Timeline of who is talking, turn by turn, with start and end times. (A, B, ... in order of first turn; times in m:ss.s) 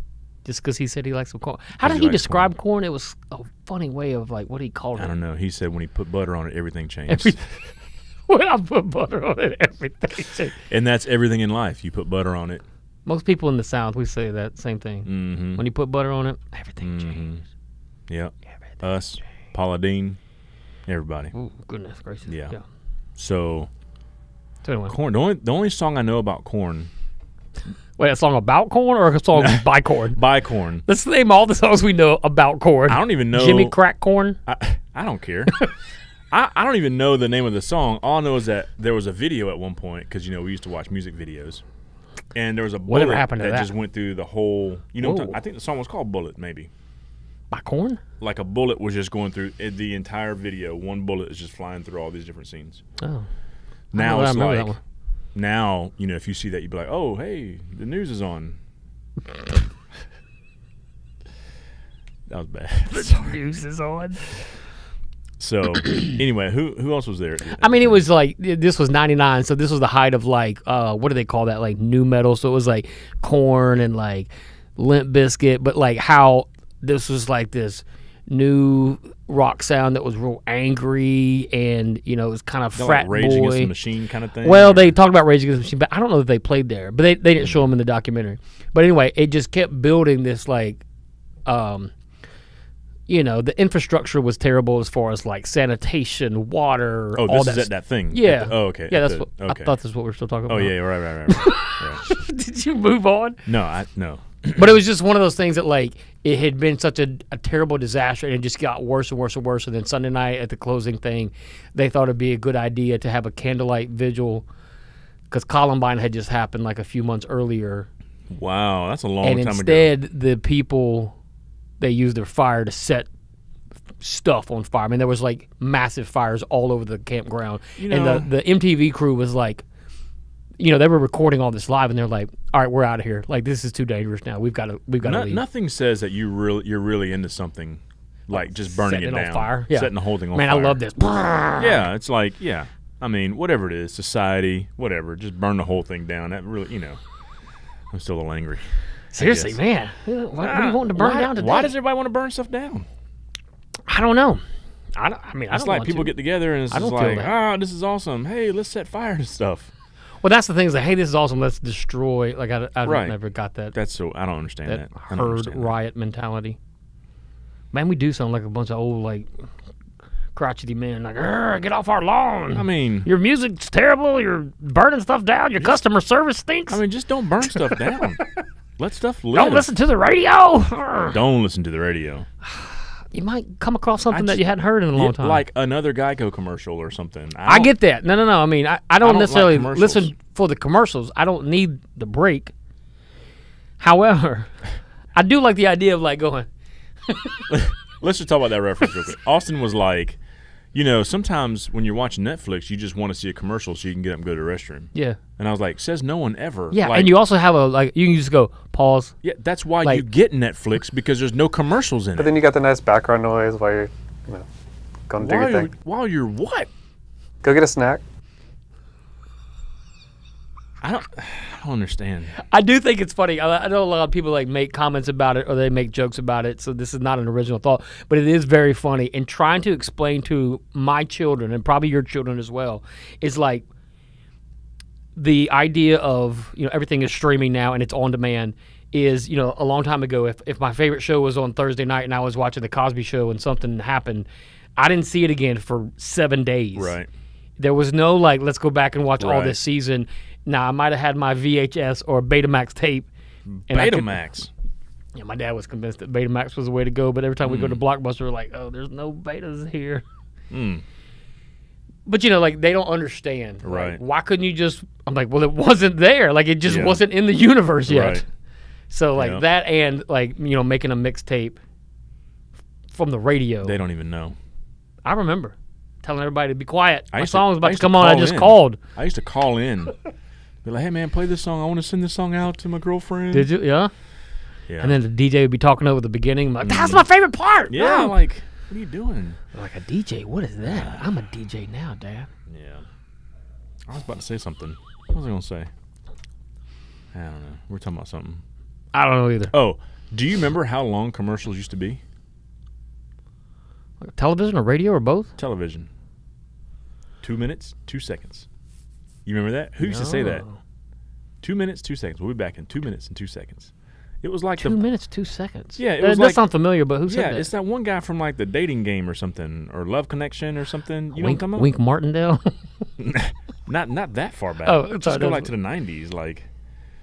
0:00.4-0:05.1 A
0:01.8-0:02.5 B
0:05.0-0:07.4 B
0:07.1-0:07.6 A
0:08.3-0:10.6 A
0:10.7-0:12.6 B
0:13.1-0:17.2 A
0:15.1-0:15.6 B
0:16.8-0:17.4 B
0:18.1-0:20.2 B
0:20.9-0:21.3 B
0:21.3-0:22.6 A
0:22.3-0:22.6 B
0:23.2-0:23.7 B
0:24.6-0:24.9 A
0:24.9-0:26.9 B
0:28.0-0:30.2 A
0:29.3-0:30.8 B
0:30.9-0:34.4 A
0:32.9-0:33.7 B
0:34.5-0:35.6 B
0:36.3-0:41.6 B
0:42.3-0:46.7 B
0:42.9-0:43.7 A
0:45.0-0:45.4 A
0:47.5-0:48.0 A
0:48.2-0:52.8 B
0:53.0-0:53.3 A
0:53.9-0:54.8 B
0:53.9-0:54.8 A
0:55.3-0:58.6 B
1:02.3-1:03.4 B
1:02.9-1:04.4 A
1:05.4-1:08.0 B
1:05.9-1:06.2 A
1:07.6-1:23.7 A
1:22.8-1:25.0 B
1:24.4-1:30.8 A
1:31.5-1:31.9 A
1:33.1-1:43.4 A
1:37.2-1:39.7 B
1:40.5-1:42.2 B
1:43.5-1:44.8 B
1:44.6-1:54.5 A
1:55.3-1:57.9 A
1:58.3-1:59.9 B
1:59.2-2:01.2 A
2:01.8-2:03.1 A
2:04.0-2:09.6 A
2:07.8-2:08.3 B
2:10.6-2:15.4 A
2:15.0-2:20.8 B
2:18.4-2:21.8 A
2:21.6-2:27.0 B
2:27.9-2:29.6 B
2:29.1-2:31.7 A
2:30.4-2:32.9 B
2:33.9-2:34.4 A
2:35.0-2:36.2 A
2:35.5-2:39.7 B
2:36.7-2:37.3 A
2:40.2-2:43.7 A
2:42.8-2:43.2 B
2:43.7-2:45.7 B
2:44.7-2:46.6 A
2:47.7-2:49.3 A
2:50.4-2:56.8 A
2:52.5-2:53.1 B
2:56.7-2:58.2 B
2:57.6-2:58.1 A
2:58.8-2:59.7 B
2:59.3-3:01.2 A
3:01.1-3:02.3 B
3:02.4-3:05.4 A
3:04.1-3:04.4 B
3:04.9-3:07.7 B
3:07.4-3:12.5 A
3:09.0-3:10.1 B
3:13.8-3:14.6 A
3:15.2-3:16.5 A
3:17.1-3:17.6 A
3:17.5-3:20.2 B
3:20.7-3:27.2 B
3:24.9-3:25.2 A
3:26.7-3:29.1 A
3:29.2-3:32.3 B
3:32.2-3:34.5 C
3:35.1-3:35.7 C
3:35.2-3:36.7 B
3:37.4-3:38.0 C
3:40.8-3:42.3 B
3:42.4-3:53.7 A
3:55.2-4:07.0 A
4:06.8-4:07.1 B
4:07.6-4:13.1 A
4:09.2-4:09.6 B
4:13.5-4:14.5 B
4:13.7-4:14.2 A
4:15.2-4:20.0 A
4:17.4-4:17.8 B
4:20.5-4:20.8 B
4:22.1-4:28.2 A
4:23.6-4:24.0 B
4:26.6-4:27.0 B
4:27.9-4:28.2 B
4:28.9-4:31.6 A
4:29.2-4:29.4 B
4:32.9-4:33.8 A
4:33.6-4:34.4 B
4:35.0-4:38.8 A
4:37.1-4:40.0 B
4:40.6-4:43.5 B
4:43.3-4:43.9 A
4:44.7-4:45.0 B
4:44.8-4:48.1 A
4:46.6-4:47.1 B
4:47.7-4:49.4 B
4:49.5-4:52.3 A
4:50.6-4:51.0 B
4:52.5-4:52.9 B
4:53.9-4:55.7 B
4:57.1-4:58.4 B
4:58.9-4:59.5 A
4:59.5-5:02.0 B
5:04.0-5:05.3 A
5:05.4-5:05.9 B
5:07.2-5:08.5 B
5:09.2-5:10.4 B
5:09.8-5:10.6 A
5:11.4-5:14.8 B
5:14.6-5:17.5 A
5:15.8-5:16.4 B
5:17.0-5:21.7 B
5:21.2-5:22.9 A
5:23.0-5:26.5 B
5:24.6-5:25.5 A